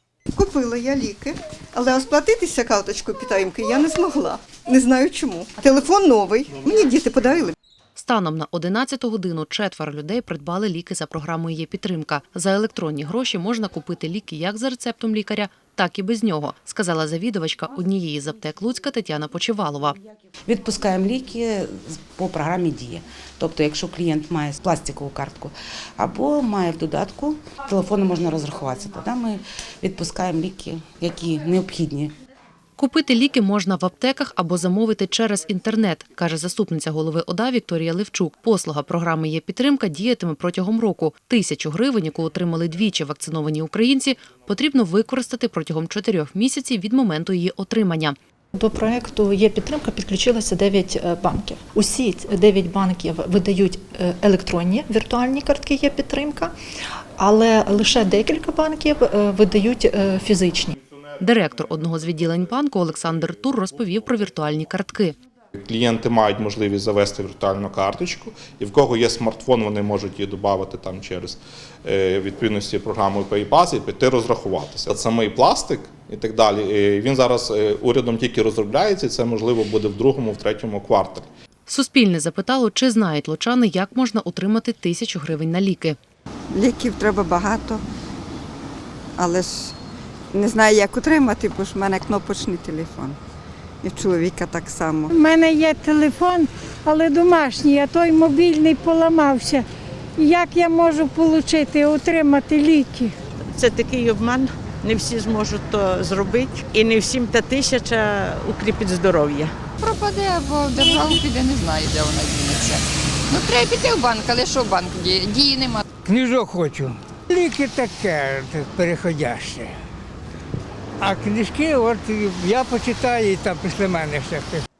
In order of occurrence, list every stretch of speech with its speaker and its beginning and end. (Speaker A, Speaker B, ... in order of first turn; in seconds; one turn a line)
Speaker A: 0.3-7.5
Speaker B: 8.0-20.0
Speaker C: 20.5-32.1
Speaker B: 32.8-48.2
Speaker D: 48.5-56.5
Speaker D: 57.2-60.8
Speaker B: 61.2-65.2
Speaker E: 65.5-81.3
Speaker B: 81.7-86.0
Speaker A: 86.5-87.8
Speaker A: 89.2-89.7
Speaker A: 90.3-93.2
Speaker A: 93.8-95.1
Speaker F: 95.1-99.6
Speaker F: 100.2-103.1
Speaker G: 103.5-109.5
Speaker H: 109.8-115.8
Speaker I: 116.0-119.7
Speaker I: 121.0-124.6